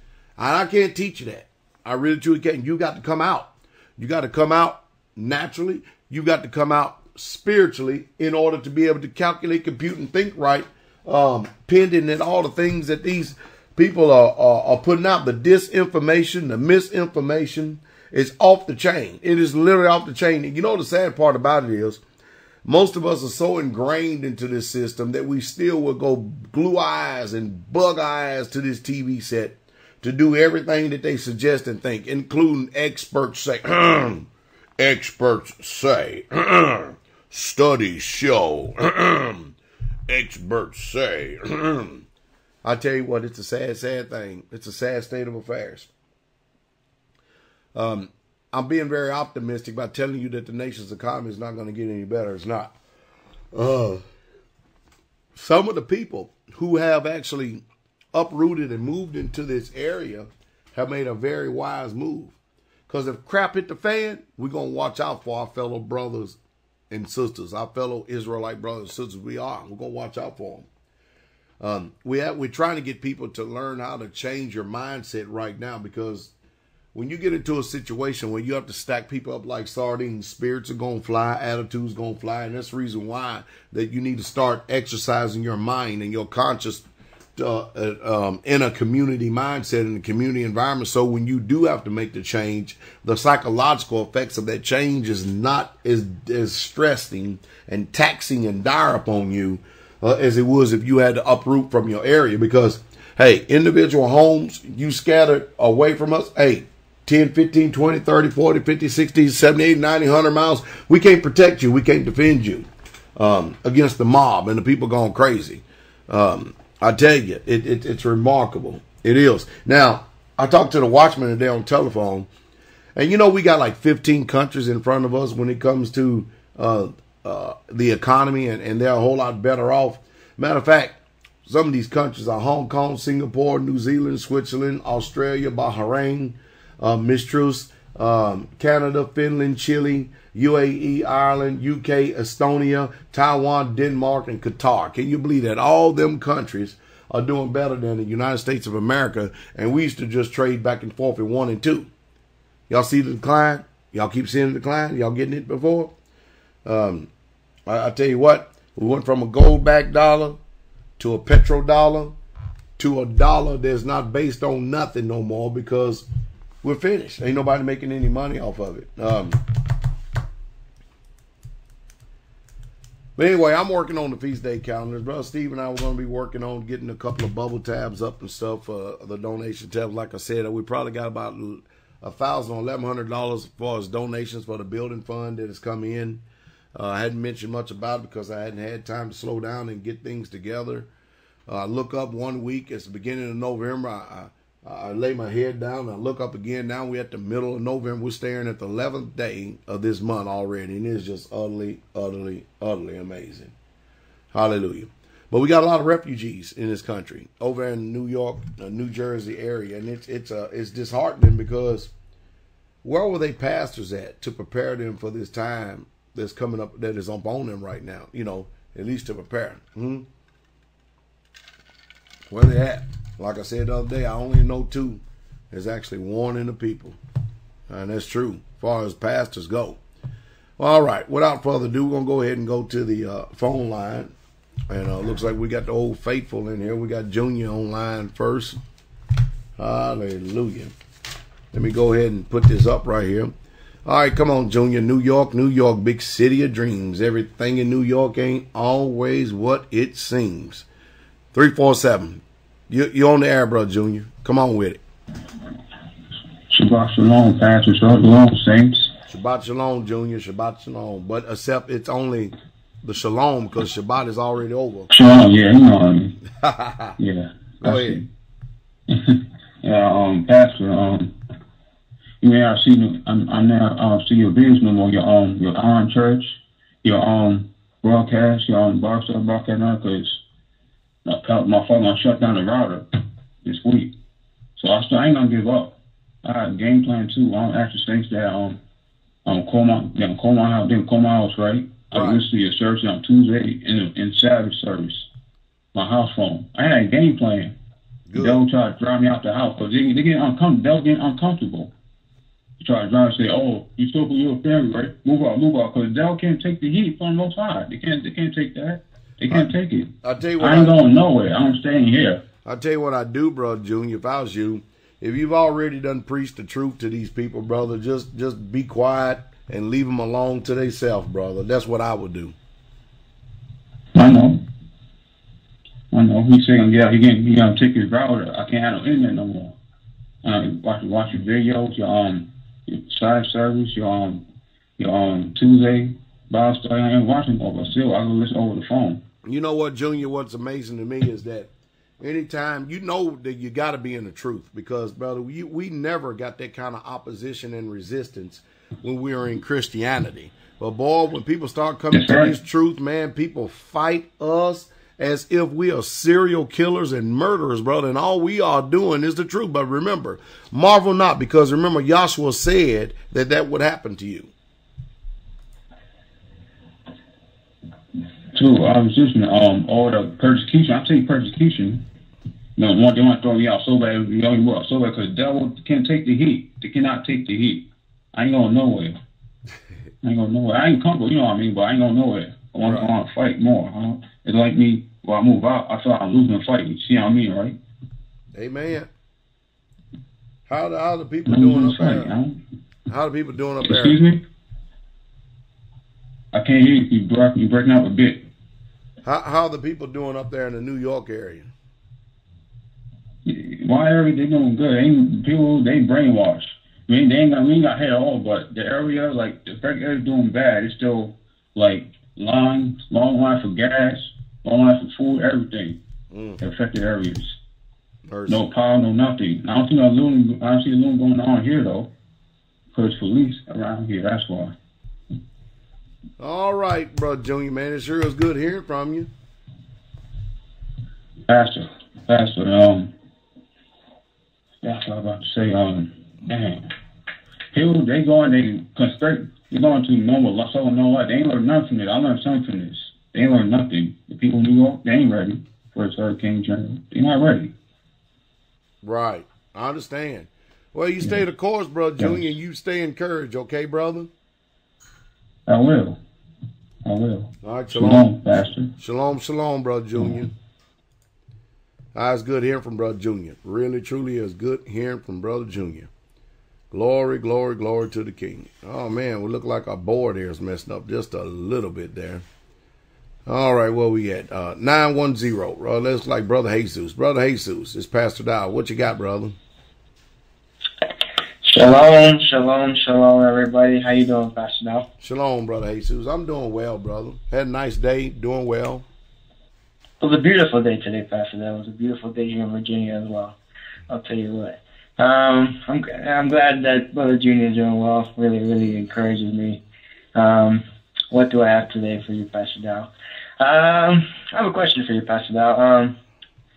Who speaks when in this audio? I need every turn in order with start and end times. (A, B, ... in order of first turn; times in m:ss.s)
0:00.4-0:22.0 A
0:22.6-0:34.3 A
0:34.8-0:39.6 A
0:40.1-0:42.0 A
0:42.6-0:45.9 A
0:47.8-0:52.7 A
0:53.5-0:54.0 A
0:55.4-0:57.6 A
0:58.1-1:02.4 A
1:02.9-1:06.4 A
1:06.9-1:10.7 A
1:11.6-1:16.3 A
1:16.9-1:26.8 A
1:27.4-2:02.3 A
2:03.0-2:31.9 A
2:32.7-2:35.9 A
2:36.6-2:37.1 A
2:37.7-2:40.4 A
2:41.0-2:42.2 A
2:42.8-2:46.0 A
2:46.6-2:49.4 A
2:53.2-3:06.2 A
3:06.8-3:10.9 A
3:11.5-3:23.5 A
3:24.3-3:31.9 A
3:32.8-3:40.1 A
3:42.3-3:45.0 A
3:45.5-3:47.0 A
3:47.7-3:49.8 A
3:50.6-3:54.1 A
3:54.7-3:58.6 A
3:59.6-4:00.7 A
4:01.5-4:03.3 A
4:03.9-4:10.6 A
4:11.3-4:14.8 A
4:16.5-4:18.9 B
4:19.1-4:22.3 A
4:22.8-4:24.9 A
4:24.9-4:26.2 B
4:26.4-4:27.0 A
4:27.0-4:28.1 B
4:27.6-4:28.0 A
4:28.9-4:31.2 B
4:32.2-4:40.2 B
4:41.0-4:42.8 B
4:43.4-4:43.9 B
4:44.6-4:48.6 B
4:49.3-4:55.1 B
4:51.9-4:52.2 A
4:55.7-4:57.6 B
4:58.1-4:58.4 A
4:58.2-5:01.7 B
5:02.6-5:12.2 B
5:10.0-5:10.8 A
5:12.4-5:22.4 A
5:24.0-5:24.4 B
5:25.9-5:29.6 B
5:30.2-5:34.2 B
5:34.8-5:39.0 B
5:39.2-5:41.5 A
5:42.0-6:04.3 A
5:51.9-5:52.3 B
6:08.3-6:11.8 B
6:12.6-6:19.0 B
6:20.0-6:27.6 B
6:28.4-6:28.9 A
6:30.5-6:32.1 A
6:31.3-6:32.4 B
6:32.9-6:34.0 A
6:33.6-6:34.2 B
6:36.3-6:38.3 B
6:39.0-6:41.5 A
6:43.2-6:55.8 B
6:56.1-6:56.4 A
6:56.4-6:57.4 B
6:58.1-6:58.4 A
6:58.3-7:01.9 B
7:02.7-7:04.6 B
7:06.2-7:09.1 A
7:11.3-7:12.9 B
7:14.6-7:16.7 B
7:17.5-7:27.5 B
7:28.8-7:34.1 A
7:32.0-7:32.3 B
7:35.5-7:36.0 B
7:36.8-7:38.7 B
7:37.4-7:38.1 A
7:38.8-7:40.3 A
7:42.0-7:45.9 A
7:46.7-7:52.2 A
7:53.3-7:59.4 A
8:01.4-8:04.9 C
8:05.0-8:08.8 A
8:10.0-8:13.4 C
8:13.9-8:19.6 C
8:20.2-8:26.0 C